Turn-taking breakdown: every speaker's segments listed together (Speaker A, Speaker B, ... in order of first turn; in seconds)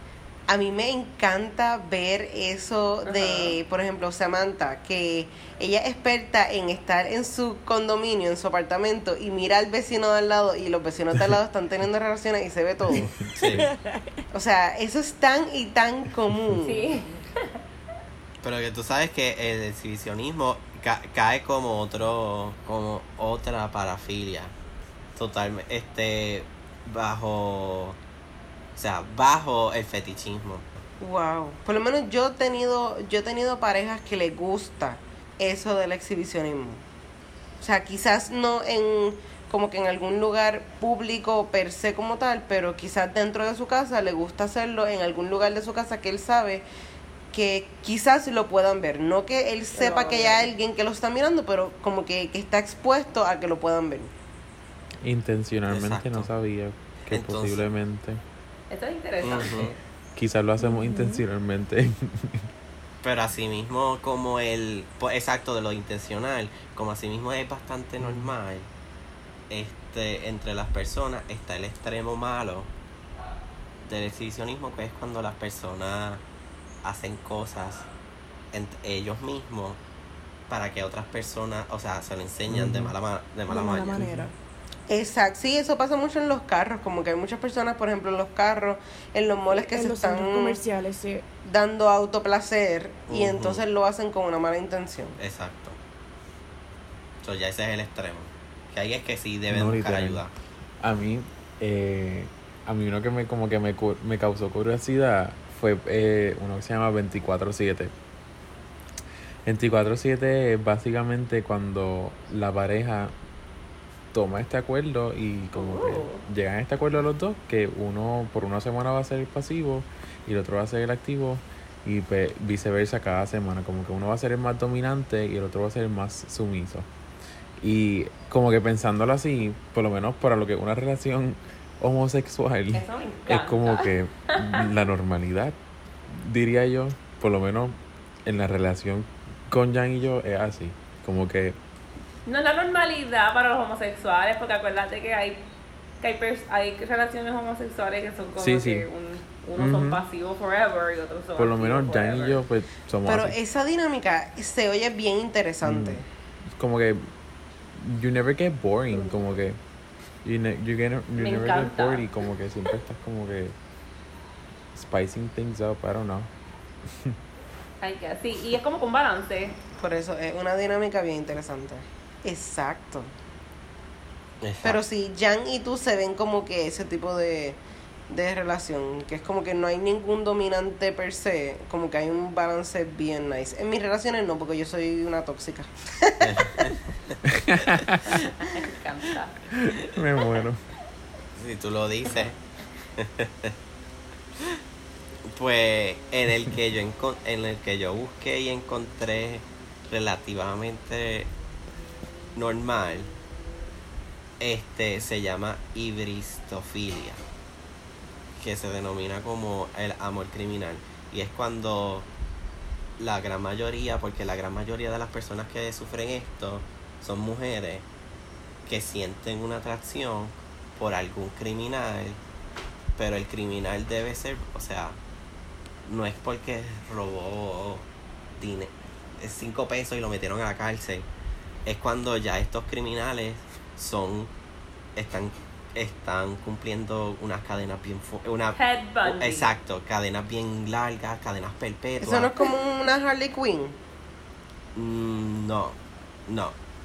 Speaker A: 0.5-13.1, 14.3-16.9, 31.0-36.8, 37.6-46.6, 47.3-54.1, 84.9-90.6, 91.4-95.2, 153.1-156.1, 169.8-173.1, 174.6-177.6, 178.1-186.7, 242.0-243.8
Speaker B: 3.0-3.6, 16.6-17.3, 49.8-50.4, 58.7-59.8, 115.5-116.2, 132.7-133.9, 142.3-145.4, 146.0-152.4, 158.9-159.2, 161.2-162.1, 167.8-169.6, 188.4-189.4, 238.6-239.5
Speaker C: 13.4-13.7, 18.4-24.5, 25.2-28.0, 28.8-30.7, 55.7-56.3, 57.1-57.6, 59.2-59.7, 63.0-68.7, 69.5-72.7, 73.8-76.2, 76.8-77.9, 78.5-79.8, 80.5-84.1, 93.1-93.6, 95.2-95.8, 97.2-100.3, 174.4-174.8, 186.2-187.2, 191.4-192.4, 193.0-193.6, 195.3-201.3, 202.3-203.1, 204.4-207.2, 208.4-212.1, 213.0-217.8, 218.7-222.2, 223.0-225.0, 225.9-227.9, 228.4-231.1, 231.7-234.3, 234.9-242.3, 244.8-245.8, 246.3-246.6
Speaker D: 13.6-14.2, 60.6-61.2, 83.5-84.3, 89.6-91.3
Speaker E: 55.0-58.2, 60.2-62.4, 68.0-68.3, 82.5-82.9, 84.0-84.2, 99.5-100.2, 100.8-107.9, 109.5-113.1, 114.1-126.9, 127.6-135.6, 136.1-141.6, 148.4-148.9, 149.6-150.0, 151.4-153.3, 155.6-156.0, 156.6-157.1, 157.8-159.6, 160.2-163.6, 164.8-166.3, 187.3-188.2, 189.5-190.6